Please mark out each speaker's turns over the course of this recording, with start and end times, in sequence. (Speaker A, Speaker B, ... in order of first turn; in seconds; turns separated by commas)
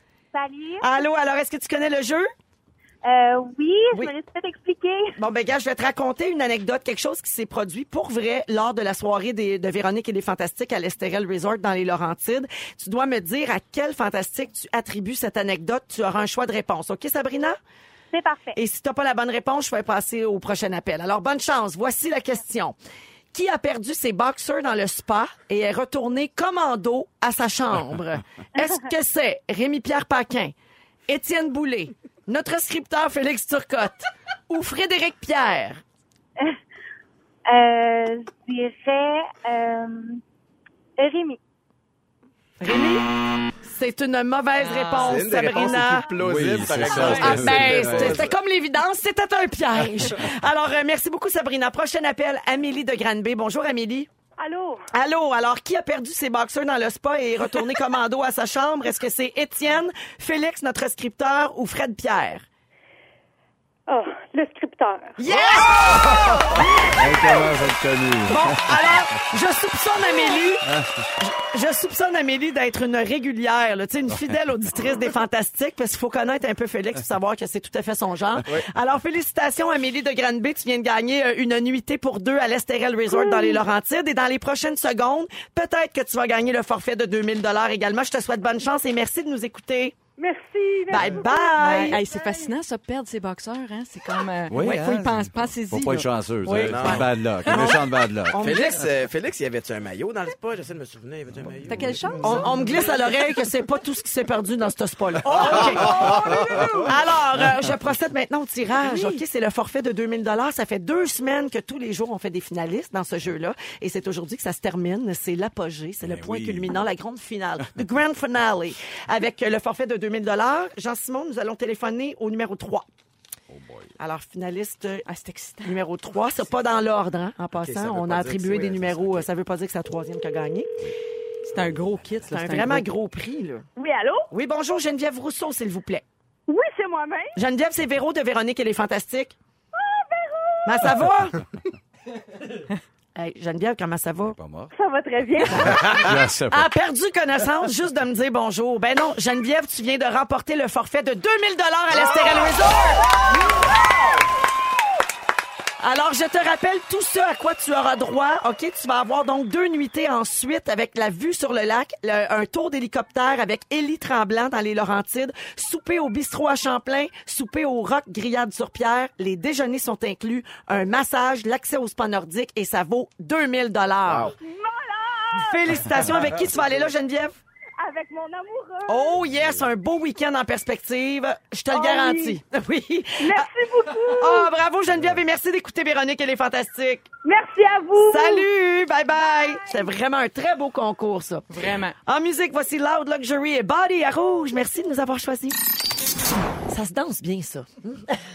Speaker A: 0.3-1.0, Speaker B: 0.8-2.3, Speaker A: 3.0-5.1, Speaker B: 5.2-17.6, Speaker A: 18.1-18.6, Speaker B: 18.5-22.8, Speaker B: 23.3-30.5, Speaker B: 31.1-35.8, Speaker A: 37.5-40.2, Speaker A: 41.0-41.4, Speaker B: 42.6-43.1, Speaker B: 43.6-46.1, Speaker C: 44.6-45.3, Speaker D: 45.0-48.3, Speaker E: 46.1-48.2, Speaker C: 46.9-47.2, Speaker B: 47.0-54.1, Speaker A: 54.4-54.9, Speaker B: 54.9-62.5, Speaker A: 63.9-65.2, Speaker B: 65.2-67.4, Speaker E: 66.8-68.9, Speaker B: 68.2-90.0, Speaker A: 83.1-83.6, Speaker A: 90.2-92.5, Speaker B: 90.9-92.0, Speaker C: 91.6-97.7, Speaker E: 94.5-98.4, Speaker D: 96.5-97.1, Speaker B: 97.5-97.8, Speaker B: 98.3-98.8, Speaker D: 98.3-102.5, Speaker C: 101.7-102.9, Speaker B: 102.2-122.8, Speaker D: 105.3-106.8, Speaker C: 105.4-106.9, Speaker C: 108.8-109.2, Speaker E: 116.0-116.8, Speaker E: 123.5-123.9, Speaker B: 124.0-125.0, Speaker C: 125.0-125.8, Speaker B: 125.6-130.7, Speaker D: 127.5-129.3, Speaker C: 131.4-132.9, Speaker B: 132.3-133.7, Speaker A: 133.8-134.3, Speaker B: 134.3-136.0, Speaker A: 136.5-137.3, Speaker B: 137.3-139.3, Speaker A: 139.7-140.9, Speaker B: 140.6-141.4, Speaker B: 143.2-144.3, Speaker E: 144.2-144.7, Speaker A: 144.7-146.1, Speaker B: 145.6-146.0, Speaker E: 145.6-146.7, Speaker B: 146.5-153.1, Speaker B: 155.8-174.3, Speaker D: 174.1-174.3, Speaker A: 174.4-175.9, Speaker B: 175.3-177.4, Speaker A: 177.8-179.2, Speaker B: 178.9-183.5, Speaker A: 181.7-182.4, Speaker A: 183.2-184.5, Speaker B: 184.0-187.1, Speaker A: 187.2-188.5, Speaker B: 187.9-195.6, Speaker A: 189.1-189.9, Speaker C: 191.5-191.9, Speaker B: 196.7-198.2